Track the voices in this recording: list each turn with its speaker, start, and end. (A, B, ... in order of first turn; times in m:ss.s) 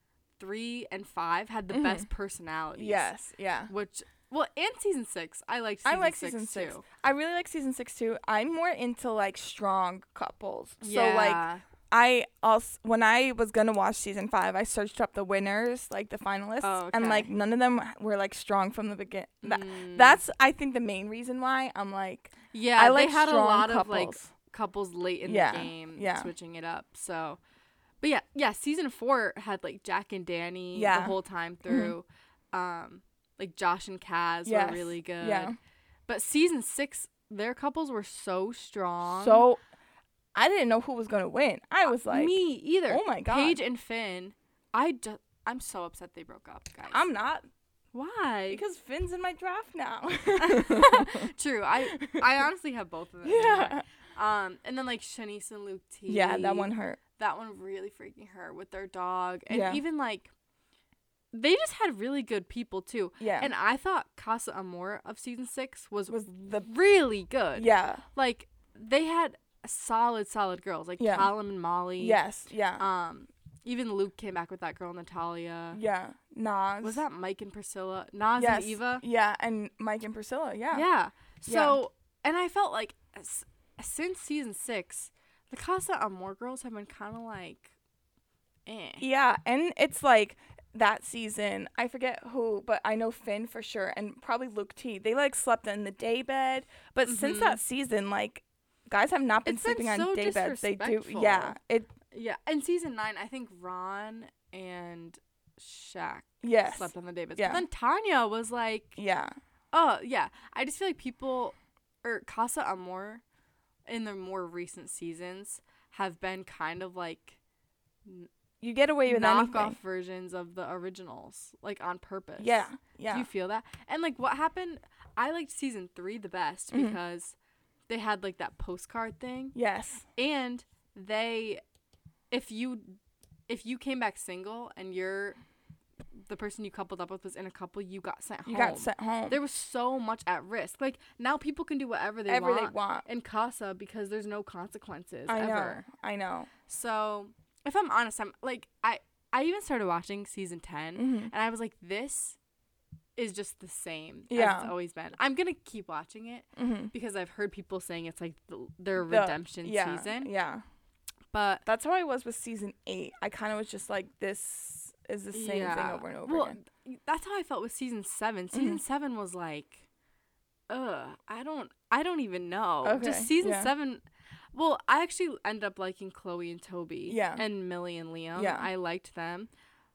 0:00.4-0:03.1 A
0:01.7-0:02.1 B
0:02.8-0:03.7 B
0:03.7-0:06.8 A
0:05.8-0:24.3 B
0:10.8-0:11.6 A
0:16.6-0:17.3 A
0:19.4-0:20.2 A
0:22.5-0:27.4 A
0:25.2-0:26.3 B
0:28.0-0:35.6 A
0:30.7-0:31.9 B
0:34.4-0:35.6 B
0:36.1-0:39.4 A
0:39.1-0:39.6 B
0:40.4-0:43.6 B
0:41.9-0:47.1 A
0:46.9-0:47.5 B
0:47.9-0:48.6 A
0:48.5-0:51.3 B
0:50.4-1:00.3 A
0:51.8-0:52.3 B
0:53.2-0:53.8 B
0:56.1-0:57.0 B
0:59.5-0:59.8 B
1:01.3-1:12.2 A
1:03.2-1:03.5 B
1:06.1-1:06.7 B
1:07.6-1:08.0 B
1:11.0-1:11.3 B
1:12.0-1:12.8 B
1:12.8-1:15.8 A
1:15.7-1:17.0 B
1:16.8-1:19.0 A
1:18.4-1:20.9 B
1:20.7-1:27.7 A
1:21.4-1:21.8 B
1:28.7-1:29.1 A
1:29.0-1:41.9 B
1:37.1-1:37.6 A
1:39.4-1:41.6 A
1:42.1-1:49.0 A
1:46.4-1:47.6 B
1:49.0-1:49.3 B
1:49.7-1:53.2 A
1:53.9-1:57.4 A
1:58.0-1:58.3 A
1:58.6-1:59.8 B
1:59.1-2:07.4 A
2:02.4-2:03.3 B
2:06.7-2:07.0 B
2:07.9-2:09.6 A
2:09.6-2:10.0 B
2:10.2-2:11.6 A
2:12.3-2:15.4 A
2:16.3-2:25.8 A
2:18.5-2:19.4 B
2:22.3-2:23.1 B
2:25.3-2:26.5 B
2:26.7-2:32.4 A
2:31.0-2:31.3 B
2:33.2-2:40.3 A
2:34.3-2:34.7 B
2:36.6-2:36.9 B
2:39.0-2:40.6 B
2:41.3-2:41.6 A
2:41.7-2:46.6 B
2:45.3-2:49.8 A
2:48.5-2:48.8 B
2:50.7-2:59.5 A
2:52.8-2:53.7 B
2:57.1-2:57.4 B
2:58.4-2:58.7 B